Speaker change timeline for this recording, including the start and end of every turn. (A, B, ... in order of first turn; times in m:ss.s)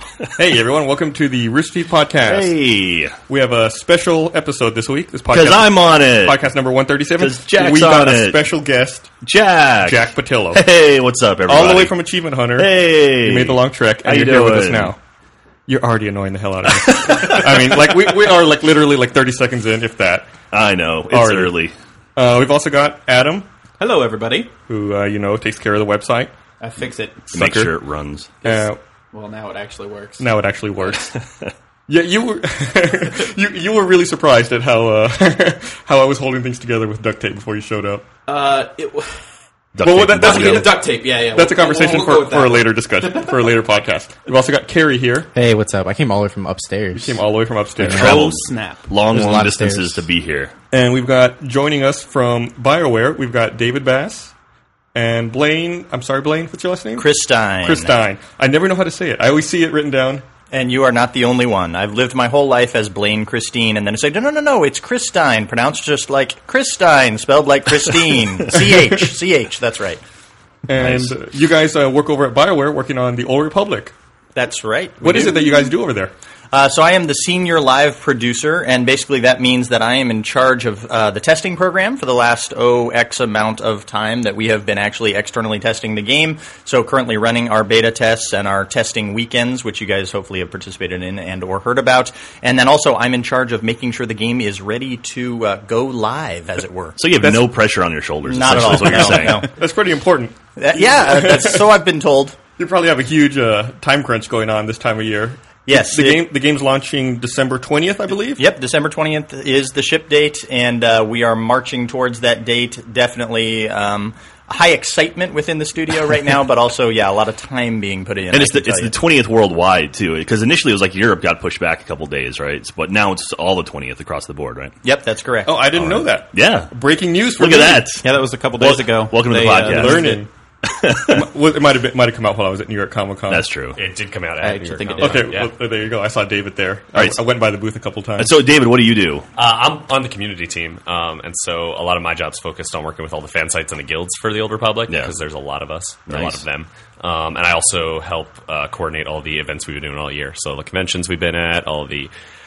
0:00.4-0:02.6 A
0:02.3-0:03.2 B
0:03.3-0:09.1 A
0:05.3-0:06.4 B
0:07.2-0:08.4 B
0:09.2-0:12.0 B
0:09.8-0:10.6 A
0:11.5-0:15.0 A
0:12.5-0:14.9 B
0:15.7-0:20.4 A
0:16.7-0:18.0 B
0:20.5-0:21.7 B
0:21.1-0:21.5 A
0:22.2-0:23.5 A
0:23.8-0:24.5 C
0:24.7-0:26.3 A
0:26.6-0:27.3 C
0:27.3-0:27.7 A
0:27.3-0:28.3 B
0:28.4-0:28.8 A
0:28.4-0:30.2 C
0:30.2-0:31.1 A
0:31.1-0:31.5 B
0:31.9-0:38.0 A
0:38.3-0:39.2 C
0:39.7-0:40.7 B
0:39.8-0:45.3 A
0:40.1-0:43.6 C
0:45.3-0:47.2 D
0:46.9-0:48.1 A
0:47.8-0:48.3 D
0:47.9-0:48.8 C
0:47.9-0:50.5 B
0:49.1-0:50.0 D
0:50.7-0:54.3 A
0:55.0-0:57.1 A
0:57.0-0:57.9 E
0:57.6-1:00.2 A
1:00.5-1:10.0 E
1:10.7-1:13.9 A
1:10.8-1:11.1 E
1:14.4-1:15.4 E
1:15.0-1:16.1 A
1:16.5-1:37.0 E
1:37.0-1:39.5 B
1:37.2-1:37.5 A
1:38.2-1:39.5 E
1:38.9-1:41.7 A
1:40.6-1:42.4 E
1:42.6-1:48.4 A
1:45.7-1:46.2 E
1:48.4-1:58.9 E
1:58.3-2:04.7 B
2:04.8-2:06.0 E
2:05.5-2:07.8 A
2:06.3-2:06.7 B
2:07.4-2:08.1 B
2:08.0-2:10.2 C
2:08.6-2:11.2 B
2:09.6-2:10.3 A
2:11.1-2:13.5 A
2:13.3-2:13.8 B
2:13.8-2:15.5 F
2:14.4-2:15.2 C
2:15.0-2:18.3 A
2:17.0-2:17.2 B
2:18.2-2:19.3 B
2:19.4-2:32.1 F
2:24.9-2:25.2 B
2:26.1-2:26.4 B